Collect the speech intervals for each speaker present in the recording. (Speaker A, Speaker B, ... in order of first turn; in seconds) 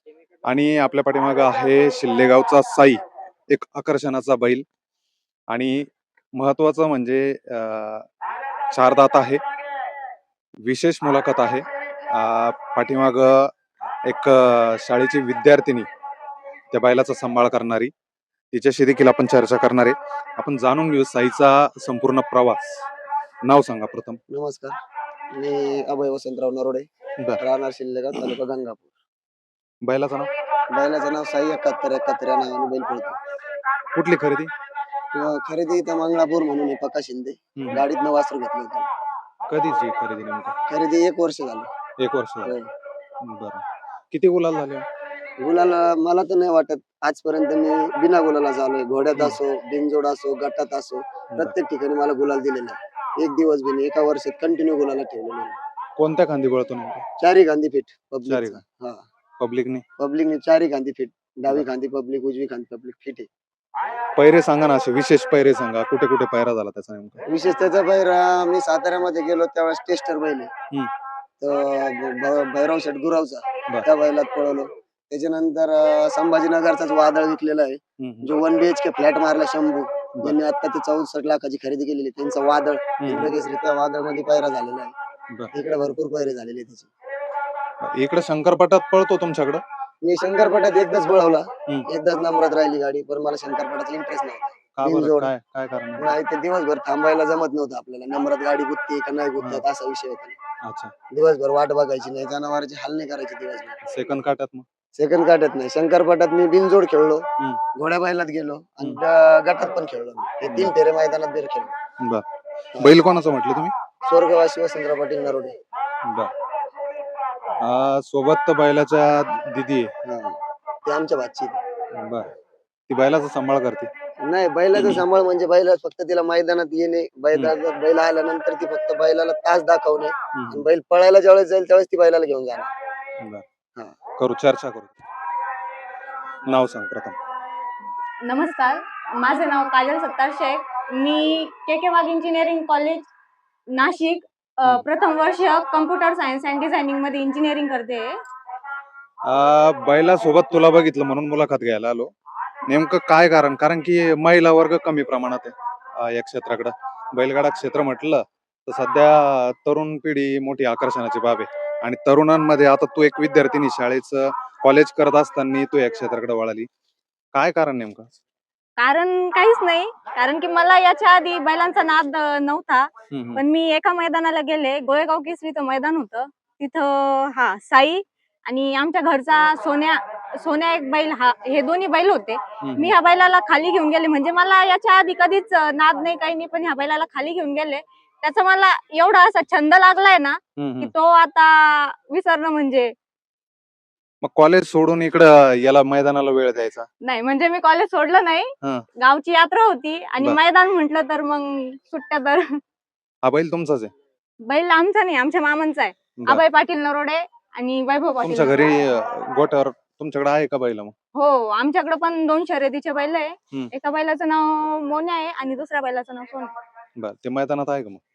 Speaker A: 0.5-4.7, 5.5-8.1, 8.7-9.4, 10.6-13.5, 14.1-15.9, 16.7-17.9, 18.5-22.8, 23.5-24.2, 29.9-30.3, 33.9-34.5, 37.6-37.9, 39.5-40.6, 42.0-42.5, 43.2-44.9, 56.0-57.0, 58.3-58.6, 59.4-59.8, 64.2-67.2, 78.0-78.3, 83.0-83.3, 87.8-89.6, 94.8-96.2, 100.6-100.9, 103.8-104.7, 110.5-110.7, 112.8-113.7, 116.0-116.3, 117.6-119.9, 122.0-122.3, 122.9-123.9, 124.7-125.0, 130.3-130.7, 133.2-133.4, 134.2-135.0, 136.5-137.2, 149.3-152.1, 152.7-166.7, 167.3-168.2, 173.1-173.4, 182.6-182.9, 190.6-190.9, 194.2-196.9, 203.2-203.9, 208.2-210.9, 217.0-218.0
Speaker B: 24.3-24.8, 25.3-26.9, 27.4-28.9, 30.7-33.2, 35.1-38.9, 40.7-41.7, 42.5-42.7, 45.4-55.6, 57.2-59.0, 60.0-63.3, 67.3-70.5, 71.4-84.9, 85.5-86.9, 90.0-95.3, 96.0-100.4, 101.1-103.8, 105.0-111.7, 114.0-115.5, 120.0-121.6, 124.2-132.7
Speaker C: 138.2-143.1, 143.8-148.1, 168.8-192.9, 197.0-202.4, 204.5-208.6, 211.2-216.5